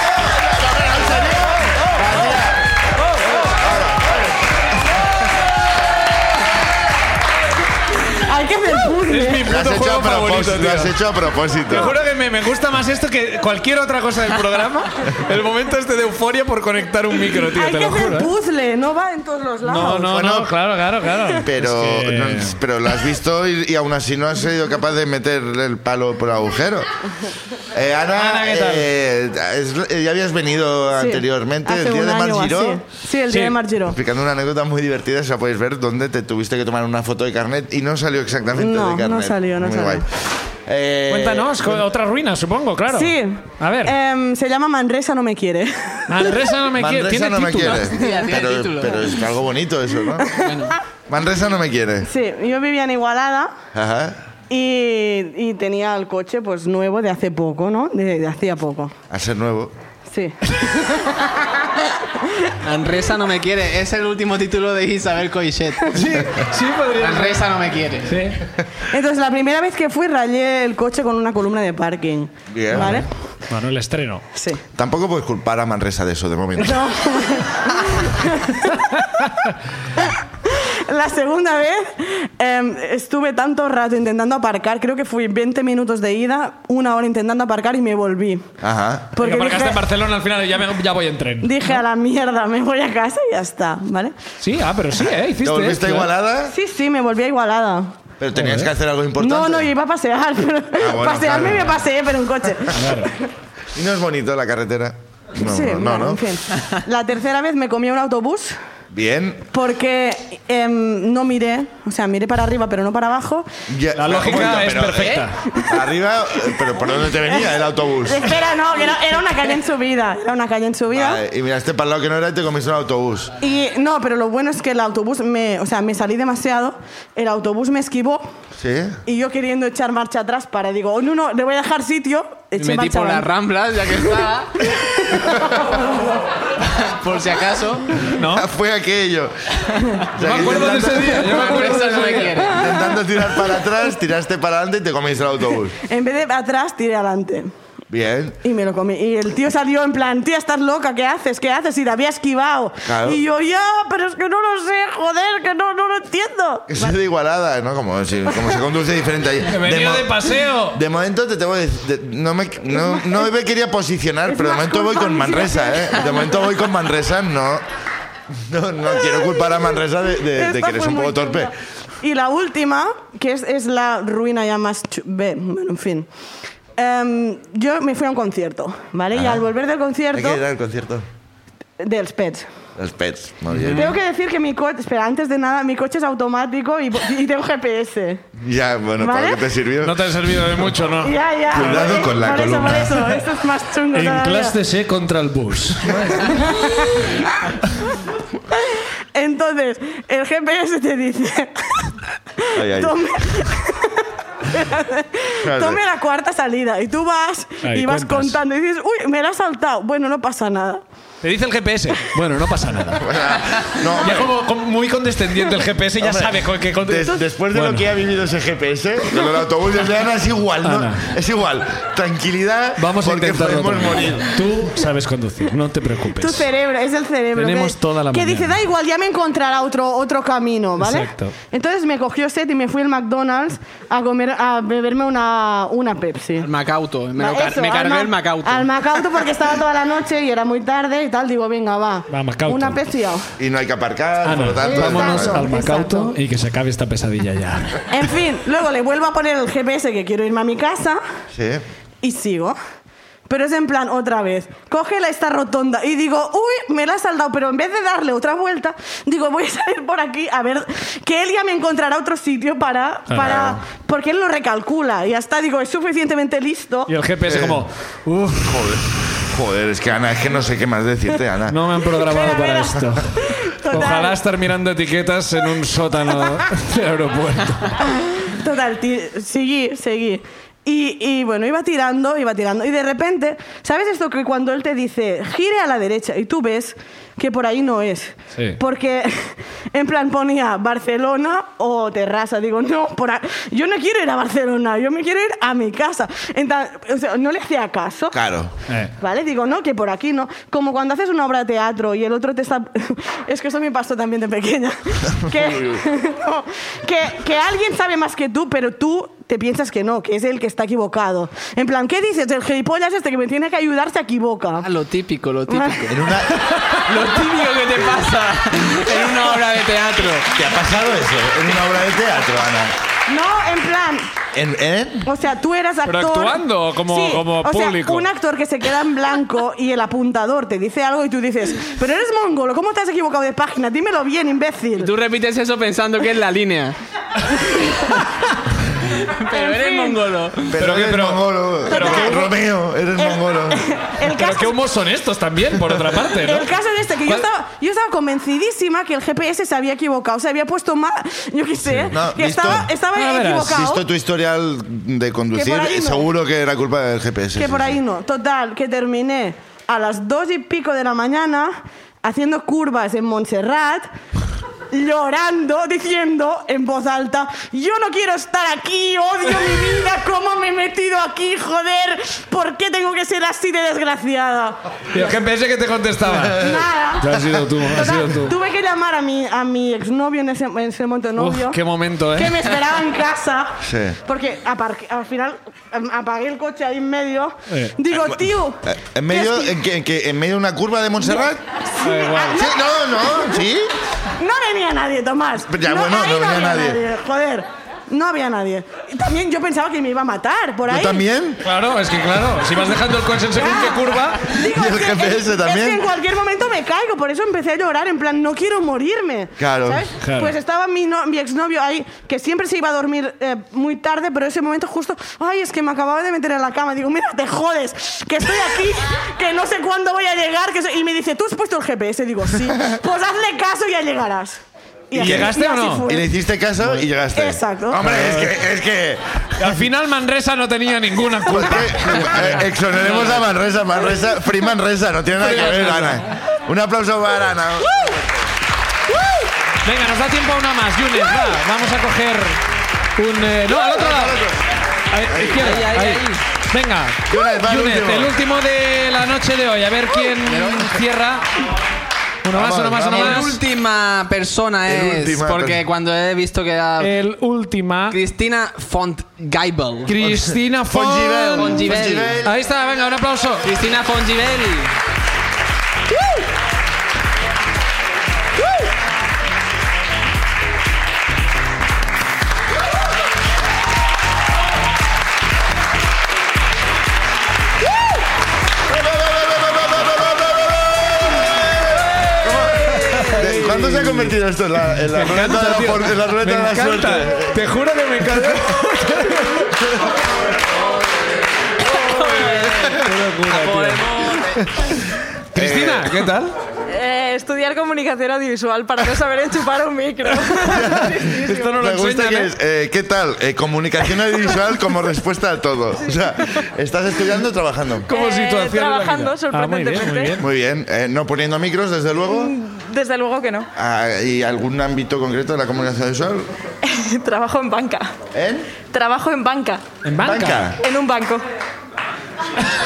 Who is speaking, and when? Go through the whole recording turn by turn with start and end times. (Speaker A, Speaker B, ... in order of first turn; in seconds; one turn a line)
Speaker A: 0.3-2.6
Speaker A: 3.5-4.4
Speaker B: 8.2-9.5
Speaker C: 9.1-10.9
Speaker A: 9.5-11.9
Speaker C: 11.7-18.3
Speaker B: 17.5-20.1
Speaker C: 19.6-22.6
Speaker A: 20.1-20.5
Speaker A: 21.4-26.9
Speaker A: 27.7-32.8
Speaker C: 28.2-28.9
Speaker B: 31.0-34.0
Speaker C: 33.3-33.6
Speaker A: 33.9-40.1
Speaker B: 38.6-40.0
Speaker A: 40.7-41.8
Speaker C: 41.1-44.0
Speaker B: 42.9-46.2
Speaker C: 46.1-47.9
Speaker A: 46.8-50.3
Speaker D: 47.7-49.2
Speaker B: 50.2-50.6
Speaker D: 50.4-50.8
Speaker A: 51.1-52.1
Speaker B: 52.0-53.5
Speaker A: 53.7-54.2
Speaker B: 54.5-59.0
Speaker A: 59.1-59.7
Speaker B: 60.1-61.5
Speaker D: 62.6-65.9
Speaker C: 65.9-67.5
Speaker D: 67.0-68.2
Speaker C: 68.1-68.4
Speaker B: 68.9-73.1
Speaker A: 72.5-73.1
Speaker C: 72.7-74.2
Speaker B: 74.3-74.6
Speaker A: 74.8-76.8
Speaker B: 76.6-79.0
Speaker B: 80.5-88.5
Speaker A: 88.6-89.2
Speaker B: 89.1-89.8
Speaker C: 89.2-91.8
Speaker B: 91.4-94.2
Speaker C: 94.4-96.1
Speaker A: 95.4-96.6
Speaker B: 96.5-98.0
Speaker A: 98.2-99.7
Speaker C: 98.3-98.7
Speaker B: 99.2-103.2
Speaker A: 100.8-101.8
Speaker C: 102.7-103.1
Speaker A: 103.8-106.3
Speaker B: 105.4-108.6
Speaker A: 108.9-109.5
Speaker B: 109.5-113.5
Speaker A: 113.7-118.3
Speaker C: 113.9-115.4
Speaker B: 117.2-121.2
Speaker A: 120.9-123.3
Speaker B: 123.4-128.2
Speaker A: 128.6-129.0
Speaker B: 129.1-133.3
Speaker D: 132.6-134.6
Speaker D: 136.6-137.9
Speaker C: 138.1-138.5
Speaker A: 138.2-141.6
Speaker C: 140.2-142.5
Speaker D: 140.3-142.6
Speaker A: 142.5-145.8
Speaker B: 142.7-142.9
Speaker B: 145.8-147.5
Speaker A: 147.9-148.4
Speaker B: 148.4-156.8
Speaker A: 152.8-153.2
Speaker A: 156.7-167.6
Speaker C: 159.5-160.8
Speaker B: 164.3-166.5
Speaker A: 168.3-171.5
Speaker B: 170.3-176.1
Speaker B: 176.8-180.4
Speaker A: 179.1-179.5
Speaker A: 180.1-181.1
Speaker B: 181.8-182.5
Speaker A: 182.8-183.9
Speaker C: 183.5-183.9
Speaker B: 183.7-188.2
Speaker A: 188.4-190.1
Speaker B: 189.0-189.4
Speaker C: 189.8-192.1
Speaker B: 191.0-194.6
Speaker A: 191.5-193.2
Speaker C: 193.9-196.5
Speaker B: 196.3-196.9
Speaker B: 199.1-210.8
Speaker A: 202.6-203.0
Speaker A: 205.4-205.8
Speaker C: 207.6-208.4
Speaker C: 211.2-213.1
Speaker A: 213.0-214.3
Speaker C: 213.9-217.9
Speaker A: 216.0-224.3
Speaker C: 220.6-221.1
Speaker C: 222.8-226.5
Speaker B: 226.1-236.5
Speaker C: 227.4-228.5
Speaker C: 230.8-231.3
Speaker D: 236.4-238.7
Speaker B: 237.2-243.3
Speaker C: 242.1-242.8
Speaker A: 243.4-245.5
Speaker C: 244.2-247.9
Speaker B: 244.7-246.2
Speaker B: 247.9-251.0
Speaker A: 251.3-251.6
Speaker B: 252.0-252.6
Speaker B: 253.3-266.9
Speaker A: 263.2-263.6
Speaker C: 266.9-268.8
Speaker A: 267.2-267.7
Speaker A: 268.4-271.6
Speaker C: 271.5-277.8
Speaker B: 272.0-274.2
Speaker B: 277.8-298.2
Speaker A: 298.1-298.5
Speaker C: 298.7-298.9
Speaker B: 299.0-314.7
Speaker A: 305.3-305.8
Speaker D: 314.6-320.3
Speaker B: 315.5-315.9
Speaker A: 315.9-316.4
Speaker A: 320.4-322.7
Speaker B: 323.1-324.1
Speaker A: 324.3-325.1
Speaker B: 325.1-334.9
Speaker C: 325.9-328.1
Speaker D: 334.8-336.8
Speaker D: 338.9-340.6
Speaker B: 339.3-340.0
Speaker A: 340.5-343.6
Speaker C: 340.6-342.3
Speaker B: 341.7-342.3
Speaker B: 343.0-344.6
Speaker C: 344.1-346.5
Speaker B: 346.2-353.8
Speaker C: 351.7-351.9
Speaker A: 351.9-352.7
Speaker C: 352.9-353.6
Speaker A: 353.5-357.8
Speaker B: 355.3-356.1
Speaker B: 357.4-363.9
Speaker B: 364.7-374.6
Speaker C: 374.9-376.5
Speaker A: 376.1-376.6
Speaker B: 376.3-377.1
Speaker C: 377.0-378.4
Speaker A: 377.2-377.4
Speaker B: 377.7-389.5
Speaker C: 381.2-382.4
Speaker A: 383.6-384.0
Speaker C: 387.5-387.8
Speaker A: 388.1-391.4
Speaker B: 391.8-393.3
Speaker C: 391.8-392.4
Speaker A: 392.3-393.7
Speaker B: 394.2-401.0
Speaker A: 395.5-396.8
Speaker A: 400.7-401.4
Speaker C: 401.4-404.3
Speaker B: 403.4-426.1
Speaker A: 404.5-405.9
Speaker A: 409.4-409.8
Speaker C: 410.0-410.3
Speaker C: 425.0-425.9
Speaker A: 425.0-429.6
Speaker B: 427.1-427.9
Speaker C: 427.8-428.4
Speaker C: 429.4-433.3
Speaker A: 431.3-438.1
Speaker C: 435.2-436.0
Speaker C: 439.6-442.4
Speaker C: 443.0-444.2
Speaker A: 443.7-444.4
Speaker C: 444.9-451.3
Speaker A: 445.1-445.5
Speaker D: 445.4-446.2
Speaker A: 447.1-448.1
Speaker D: 450.3-450.8
Speaker C: 452.2-453.4
Speaker A: 452.3-453.4
Speaker D: 452.9-456.9
Speaker A: 454.7-455.6
Speaker C: 456.8-458.0
Speaker D: 457.9-459.9
Speaker C: 459.9-463.5
Speaker A: 460.0-462.4
Speaker D: 461.4-462.2
Speaker D: 463.4-464.7
Speaker A: 478.6-487.4
Speaker C: 482.7-484.2
Speaker C: 484.9-489.5
Speaker E: 491.7-492.8
Speaker D: 491.7-492.7
Speaker C: 492.6-494.8
Speaker D: 493.3-494.4
Speaker C: 495.3-496.3
Speaker A: 495.3-496.0
Speaker E: 496.7-501.5
Speaker A: 500.4-507.9
Speaker C: 500.9-502.3
Speaker E: 505.8-506.1
Speaker C: 507.9-510.3
Speaker E: 507.9-510.2
Speaker A: 510.2-512.3
Speaker E: 512.0-513.5
Speaker A: 513.5-516.3
Speaker E: 516.6-518.0
Speaker A: 518.1-518.5
Speaker E: 518.6-519.7
Speaker C: 519.8-520.5
Speaker A: 520.0-520.6
Speaker E: 520.6-521.2